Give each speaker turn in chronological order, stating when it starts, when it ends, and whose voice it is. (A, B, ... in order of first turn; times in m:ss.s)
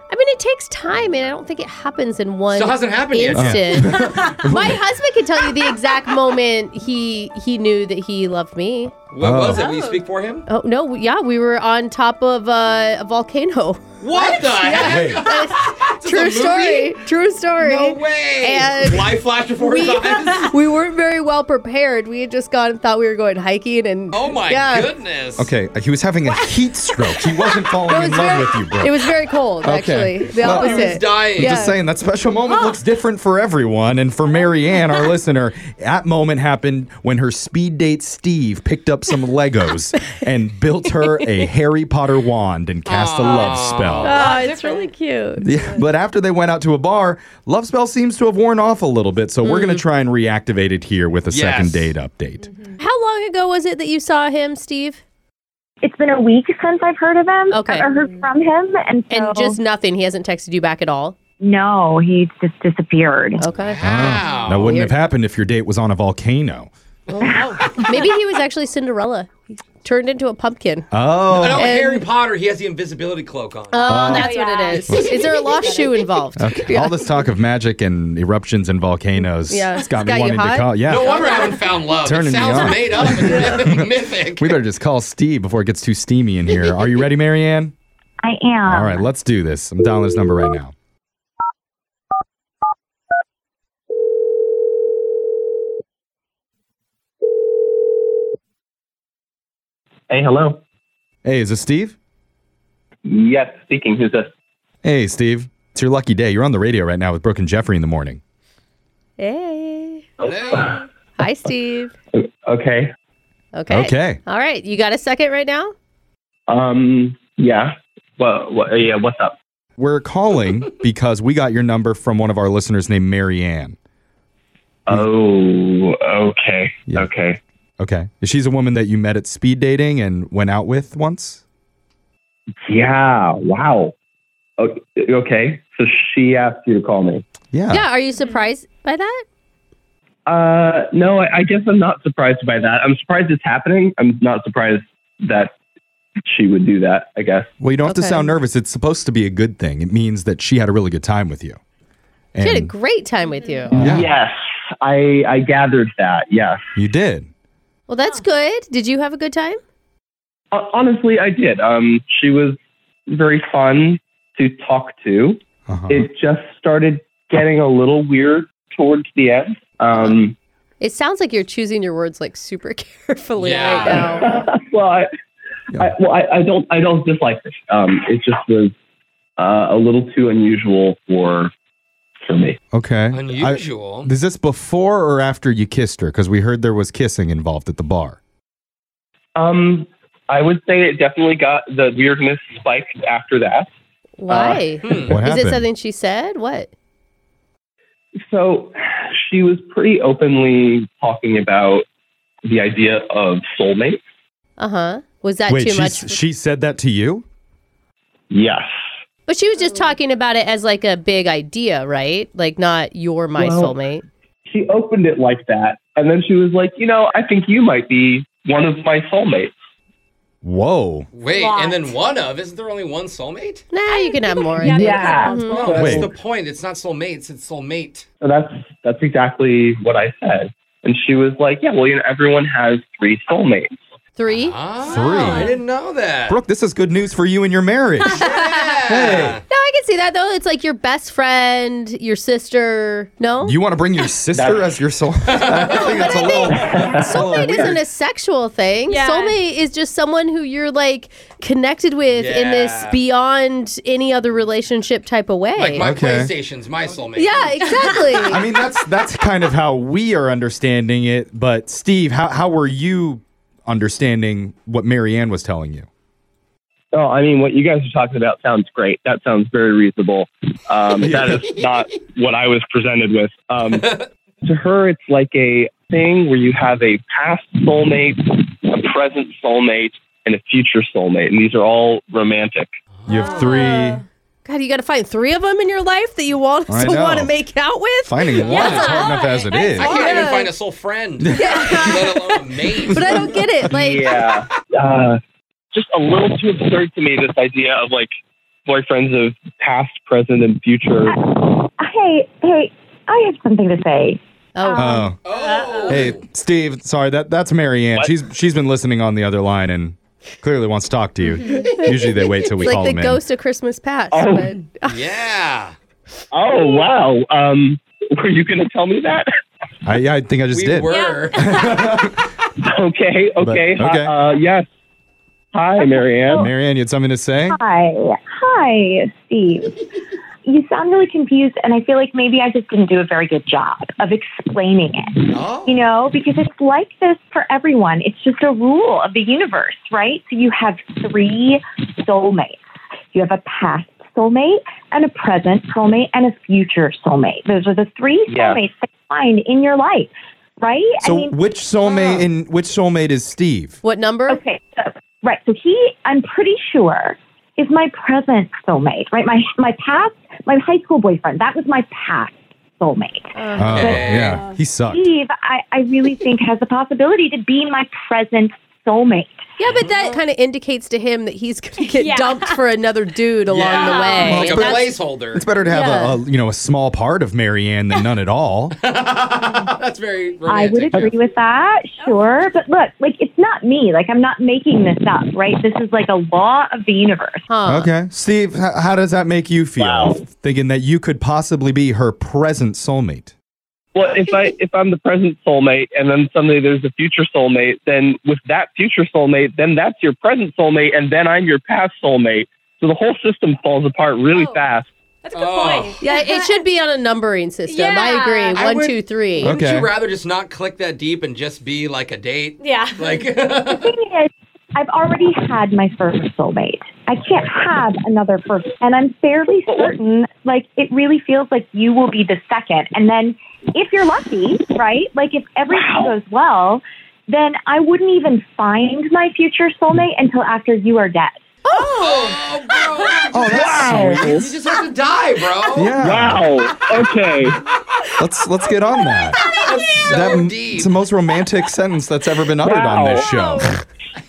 0:00.1-0:08.9 A
0:02.5-0:04.0 B
0:03.3-0:04.8 C
0:09.1-0:10.5 B
0:09.2-0:09.6 C
0:10.5-0:24.9 A
0:14.0-0:17.1 B
0:14.8-0:15.2 C
0:17.6-0:20.5 B
0:24.1-0:25.5 B
0:25.4-0:29.0 C
0:27.9-0:31.8 A
0:29.6-0:44.2 C
0:30.4-0:31.7 B
0:42.8-0:44.2 B
0:44.0-0:45.5 A
0:44.1-0:44.9 D
0:45.4-0:52.5 C
0:49.4-0:49.8 A
0:51.3-0:51.9 B
0:52.5-0:52.8 D
0:52.8-0:55.0 A
0:55.8-0:59.6 E
0:57.5-0:57.9 A
0:59.1-1:01.1 A
1:01.4-1:03.4 E
1:03.4-1:04.9 A
1:03.5-1:04.8 B
1:03.8-1:06.7 C
1:07.1-1:07.8 B
1:07.3-1:07.6 D
1:07.8-1:10.9 A
1:10.9-1:11.7 C
1:11.3-1:13.9 B
1:11.5-1:12.0 A
1:13.7-1:17.0 A
1:13.9-1:15.2 C
1:13.9-1:16.1 D
1:16.4-1:21.3 C
1:19.5-1:21.6 A
1:20.8-1:24.6 B
1:22.0-1:27.7 C
1:28.2-1:29.1 E
1:28.6-1:30.7 C
1:40.1-1:40.6 F
1:41.2-1:42.0 C
1:43.0-1:44.3 F
1:44.8-1:48.2 C
1:49.2-1:50.0 A
1:50.2-1:50.7 B
1:50.2-1:50.8 F
1:51.2-1:51.9 A
1:52.1-1:52.9 F
1:53.5-1:55.7 A
1:53.7-1:54.2 C
1:56.5-1:59.4 F
1:59.8-2:03.8 C
2:04.9-2:07.4 F
2:07.8-2:11.4 C
2:12.6-2:13.9 F
2:14.6-2:17.2 F
2:17.5-2:17.9 C
2:17.7-2:19.2 A
2:20.2-2:25.5 F
2:26.2-2:27.5 F
2:27.6-2:31.6 C
2:27.8-2:28.3 A
2:32.3-2:32.7 C
2:32.4-2:33.8 A
2:33.3-2:33.6 D
2:33.7-2:36.6 F
2:33.8-2:34.1 C
2:36.7-2:37.3 C
2:37.9-2:39.6 A
2:40.5-2:42.6 F
2:43.1-2:50.3 F
2:45.7-2:46.1 C
2:50.8-2:54.5 A
2:53.4-2:54.0 B
2:53.7-2:55.1 F
2:55.8-2:58.7 F
2:59.4-3:01.5 F
3:02.2-3:02.6 F
3:02.7-3:08.2 C
3:03.1-3:04.1 B
3:09.4-3:13.7 F
3:14.2-3:16.7 A
3:14.3-3:15.1 F
3:14.8-3:15.2 B
3:15.1-3:15.7 C
3:18.3-3:21.8 F
3:22.4-3:24.0 F
3:24.6-3:26.2 A
3:25.5-3:27.2 C
3:28.3-3:28.8 F
3:29.3-3:34.0 A
3:33.3-3:33.8 F
3:34.5-3:39.5 F
3:40.4-3:41.1 C
3:41.1-3:43.6 B
3:41.3-3:41.9 D
3:43.7-3:45.8 A
3:43.9-3:45.9 D
3:44.6-3:46.1 F
3:45.4-3:48.0 B
3:45.7-3:46.1 C
3:48.2-3:53.8 F
3:54.2-3:55.6 A
3:54.3-3:56.4 B
3:54.8-3:55.5 C
3:56.3-3:58.3 C
3:58.0-3:58.7 A
3:58.1-3:59.4 B
3:58.9-3:59.4 C
3:59.5-4:03.6 A
4:03.4-4:07.8 C
4:04.3-4:04.8 F
4:05.3-4:05.8 B
4:05.7-4:15.9 A
4:06.1-4:07.7 F
4:08.9-4:09.4 D
4:12.1-4:13.0 B
4:15.5-4:17.7 B
4:15.8-4:16.3 C
4:17.1-4:18.4 A
4:18.2-4:25.9 C
4:26.9-4:33.9 F
4:31.0-4:31.5 C
4:33.6-4:34.0 B
4:34.4-4:42.7 F
4:43.1-4:44.0 C
4:43.1-4:44.0 D
4:43.2-4:43.9 A
4:44.4-4:49.0 A
4:46.7-4:47.3 C
4:48.0-4:49.9 C
4:48.4-4:49.1 B
4:48.5-4:50.4 D
4:49.7-4:50.5 A
4:49.8-4:53.4 B
4:51.2-4:52.1 C
4:51.3-4:52.3 A
4:52.9-4:54.2 A
4:53.7-4:55.2 F
4:55.7-4:58.1 F
4:58.6-5:01.2 F
5:01.1-5:04.2 E
5:04.6-5:05.1 A
5:04.6-5:06.1 D
5:04.8-5:05.2 C
5:05.2-5:06.2 B
5:05.9-5:13.2 C
5:11.5-5:15.0 A
5:14.1-5:14.5 F
5:14.8-5:15.7 B
5:16.3-5:19.3 F
5:19.8-5:22.2 C
5:20.5-5:21.6 B
5:20.9-5:21.9 D
5:22.6-5:24.6 F
5:23.4-5:24.1 C
5:25.5-5:26.5 F
5:25.8-5:26.5 E
5:26.3-5:27.6 C
5:27.5-5:29.8 E
5:30.4-5:42.6 E
5:35.3-5:35.9 B
5:43.1-5:51.4 E
5:48.3-5:48.6 F
5:51.0-5:53.8 C
5:53.8-5:54.4 A
5:54.3-6:09.4 E
6:03.4-6:04.0 A
6:03.6-6:05.1 C
6:03.7-6:04.4 B
6:09.6-6:14.9 A
6:09.9-6:10.2 D
6:11.8-6:12.6 D
6:13.5-6:15.4 B
6:13.8-6:14.3 D
6:14.2-6:18.8 C
6:15.6-6:16.2 A
6:18.8-6:21.1 B
6:20.5-6:27.4 E
6:22.0-6:22.4 D
6:27.5-6:27.9 A
6:27.6-6:33.3 C
6:29.8-6:30.2 F
6:33.9-6:44.9 F
6:44.3-6:44.7 D
6:45.2-6:46.6 D
6:45.3-6:46.0 B
6:46.0-6:49.5 A
6:47.7-6:48.6 D
6:48.5-6:53.9 B
6:49.4-6:49.9 C
6:52.6-6:53.3 D
6:53.6-7:11.4 E
6:59.7-6:59.9 F
7:05.7-7:06.2 F
7:11.6-7:12.3 A
7:11.8-7:12.4 D
7:12.0-7:13.6 B
7:13.3-7:14.4 C
7:13.4-7:14.5 F
7:14.3-7:15.9 B
7:15.7-7:16.5 C
7:16.0-7:17.6 F
7:18.2-7:19.4 C
7:19.1-7:19.6 D
7:19.3-7:20.9 B
7:20.0-7:23.8 C
7:22.6-7:23.3 F
7:23.2-7:23.7 D